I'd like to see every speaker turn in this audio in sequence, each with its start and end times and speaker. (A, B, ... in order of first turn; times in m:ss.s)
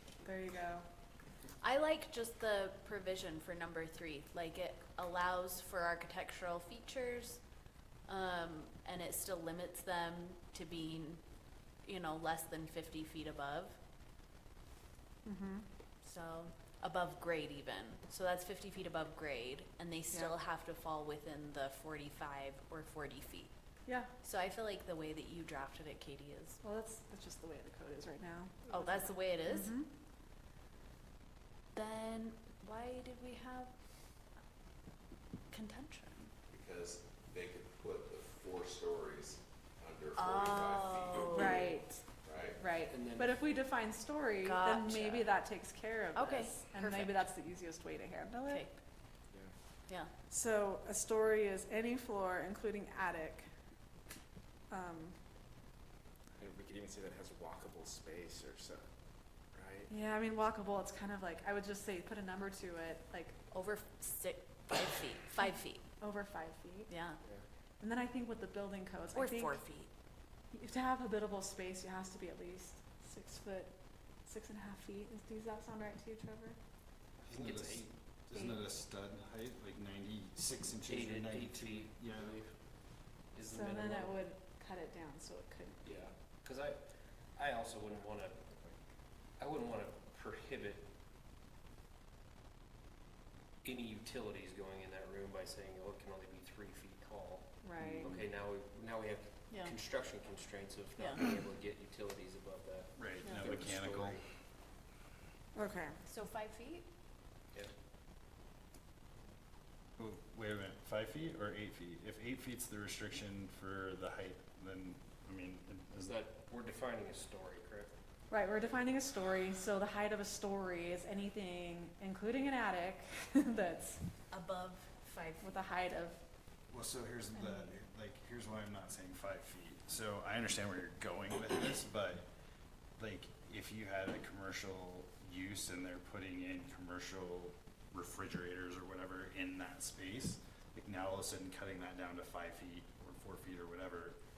0:00.2-0:00.8 A
0:01.6-0:07.4 B
0:08.1-0:11.2 B
0:11.8-0:13.8 B
0:15.2-0:15.7 A
0:16.0-0:23.5 B
0:23.9-0:24.1 A
0:24.2-0:26.6 B
0:26.6-0:29.9 A
0:28.7-0:29.8 B
0:31.7-0:33.7 B
0:35.5-0:36.3 B
0:36.5-0:42.6 C
0:40.2-0:41.6 B
0:41.2-0:48.7 A
0:42.9-0:43.4 D
0:44.4-0:45.3 B
0:46.1-0:47.3 B
0:48.4-0:48.7 B
0:50.3-0:53.5 A
0:54.7-0:55.2 A
0:56.4-0:58.8 E
0:59.5-0:59.9 E
0:59.9-1:03.4 A
1:03.5-1:05.9 B
1:05.4-1:06.9 A
1:06.9-1:07.2 B
1:07.8-1:09.6 A
1:09.1-1:09.9 B
1:10.5-1:13.7 A
1:14.3-1:16.6 A
1:17.2-1:22.4 F
1:17.3-1:17.9 D
1:20.8-1:22.5 D
1:23.3-1:24.2 D
1:23.5-1:26.1 A
1:25.8-1:26.8 D
1:27.4-1:28.4 D
1:29.4-1:30.9 D
1:33.6-1:44.2 D
1:37.6-1:38.2 A
1:39.5-1:39.8 B
1:41.0-1:41.2 B
1:43.0-1:44.2 F
1:43.2-1:43.6 B
1:45.6-1:46.0 A
1:46.1-1:46.9 B
1:50.0-1:56.2 F
1:56.0-1:58.0 D
1:58.3-2:04.0 A
2:04.3-2:05.6 B
2:05.4-2:06.2 A
2:06.7-2:12.3 F
2:07.3-2:07.7 B
2:13.0-2:24.2 F